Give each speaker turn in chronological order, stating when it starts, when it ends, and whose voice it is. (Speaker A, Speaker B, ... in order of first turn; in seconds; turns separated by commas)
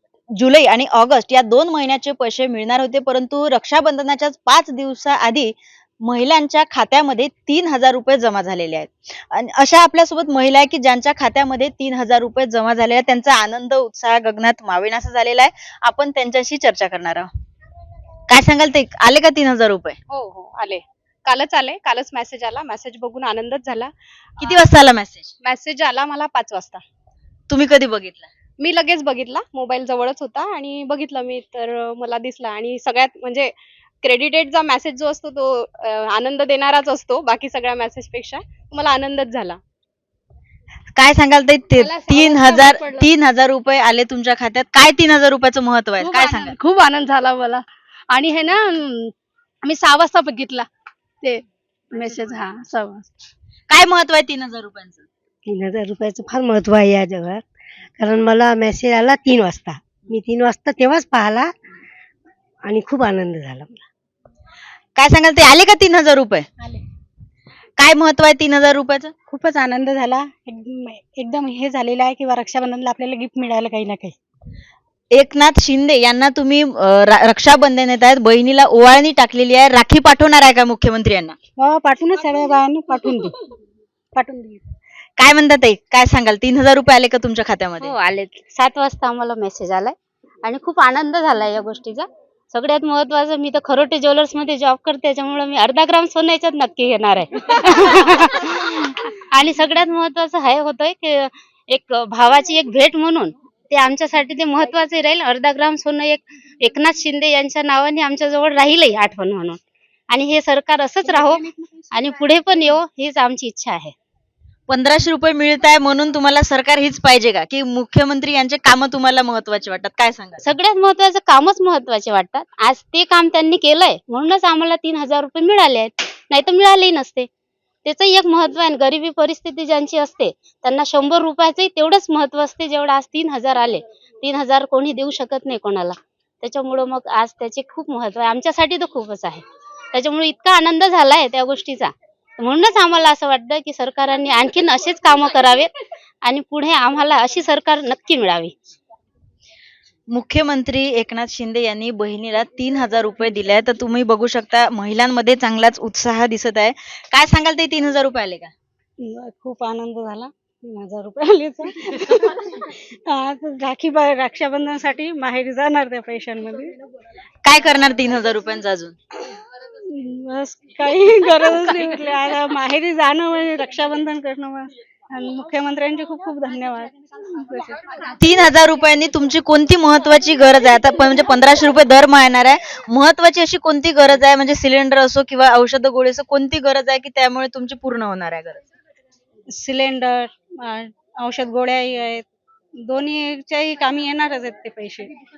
Speaker A: 0.3-17.3, Speaker A: 18.3-20.0, Speaker B: 20.1-23.9, Speaker A: 24.4-25.3, Speaker B: 25.4-26.8, Speaker A: 27.5-28.3, Speaker B: 28.6-33.5, Speaker B: 34.0-39.6, Speaker A: 41.0-46.5, Speaker C: 51.9-52.2, Speaker A: 53.7-55.0, Speaker D: 55.5-57.4, Speaker D: 58.0-61.5, Speaker D: 62.6-63.8, Speaker A: 65.0-66.5, Speaker A: 67.8-69.1, Speaker C: 69.3-74.1, Speaker A: 75.1-81.3, Speaker C: 81.6-83.4, Speaker C: 84.1-84.6, Speaker A: 85.2-87.9, Speaker E: 87.8-109.6, Speaker E: 110.1-113.9, Speaker A: 114.7-120.4, Speaker E: 120.4-127.3, Speaker E: 127.8-145.7, Speaker E: 146.2-148.5, Speaker A: 150.1-158.5, Speaker C: 159.0-166.8, Speaker A: 167.4-168.9, Speaker C: 169.8-177.8, Speaker A: 178.2-188.6, Speaker C: 189.5-192.2, Speaker C: 192.8-195.1